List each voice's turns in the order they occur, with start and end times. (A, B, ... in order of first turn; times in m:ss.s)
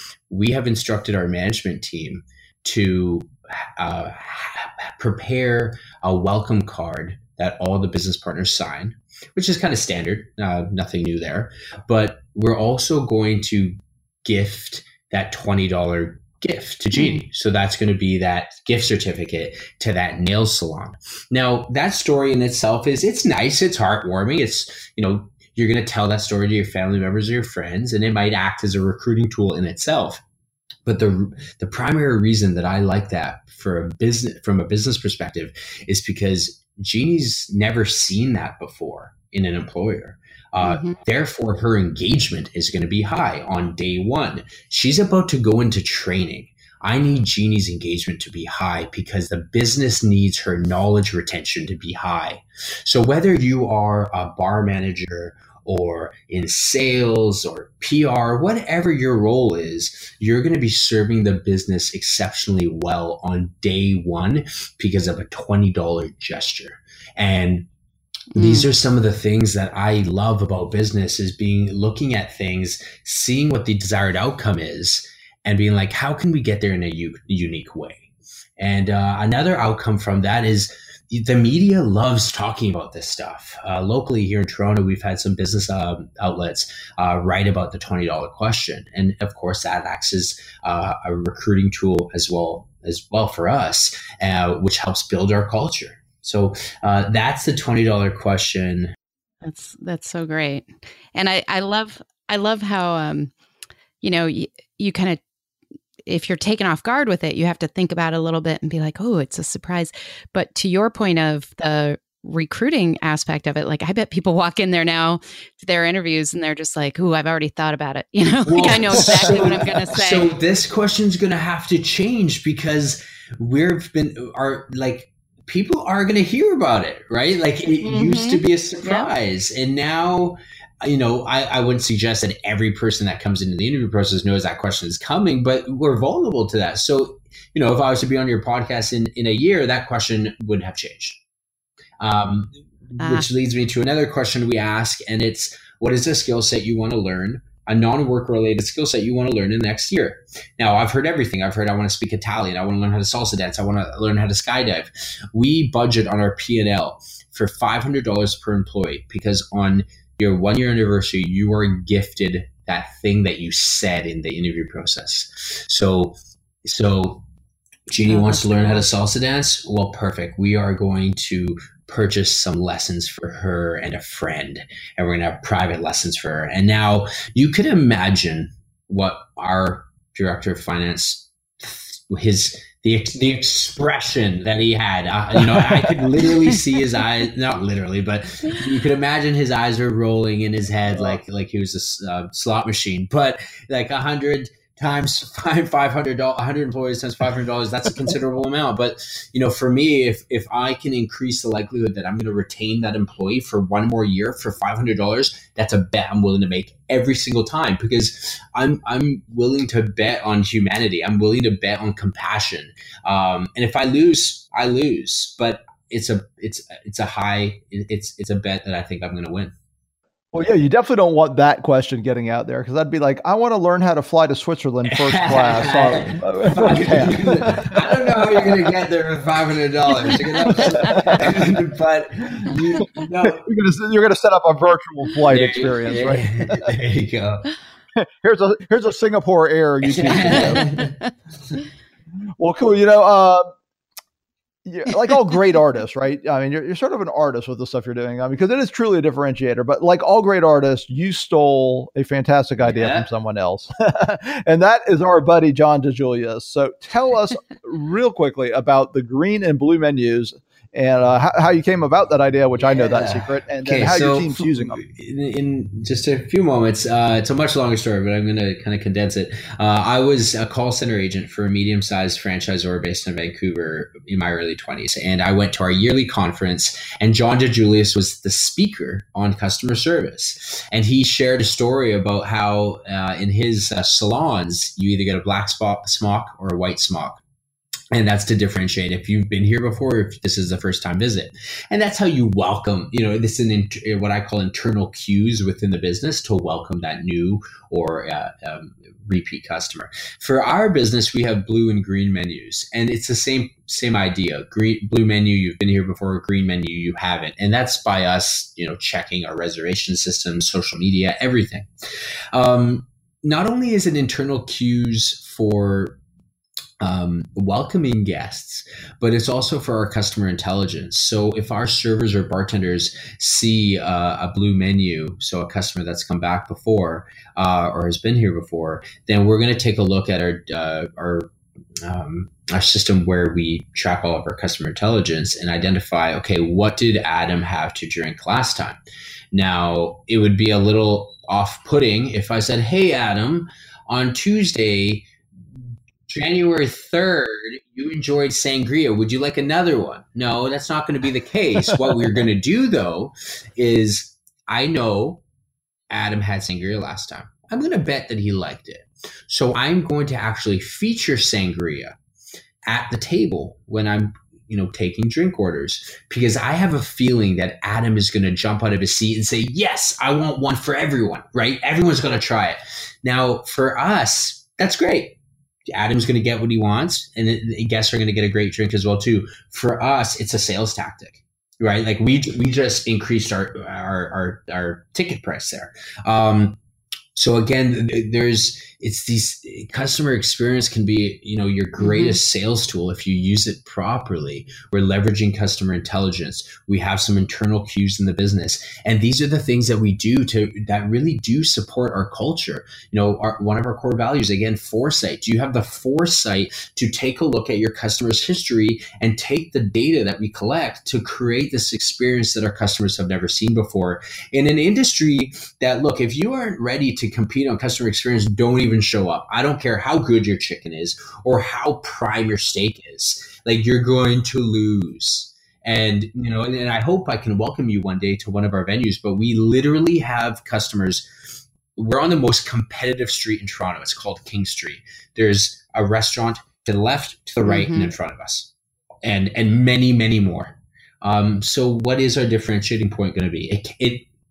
0:00.3-0:30.2 A
0:17.0-0:17.2 B
0:30.8-1:07.7 A
0:40.6-0:41.0 B
1:08.3-1:08.6 B
1:08.3-1:38.9 A
1:39.4-1:43.3 B
1:44.0-1:45.2 B
1:46.1-2:00.3 B
1:58.4-2:21.2 A
2:07.8-2:09.1 B
2:22.0-2:47.2 A
2:23.0-2:23.2 B
2:47.9-3:39.5 A
2:48.1-2:48.4 B
3:10.9-3:11.2 C
3:40.3-3:48.7 C
3:44.9-3:53.4 A
3:50.5-3:51.6 C
3:53.2-3:56.7 C
3:55.3-3:57.5 A
3:58.0-4:00.7 C
3:59.8-4:01.0 A
4:00.6-4:01.1 B
4:02.4-4:03.5 C
4:04.6-4:24.8 C
4:12.6-4:13.1 A
4:22.7-4:47.2 A
4:47.9-5:11.7 A
5:12.3-5:16.0 A
5:16.8-5:31.3 A
5:31.8-5:38.8 A
5:39.3-5:45.1 A
5:46.1-5:55.2 A
5:55.9-6:02.0 A
6:02.6-6:15.2 A
6:15.7-6:26.6 A
6:27.1-7:18.5 A
6:31.8-6:32.2 B
7:17.4-7:17.9 B
7:19.0-7:24.1 A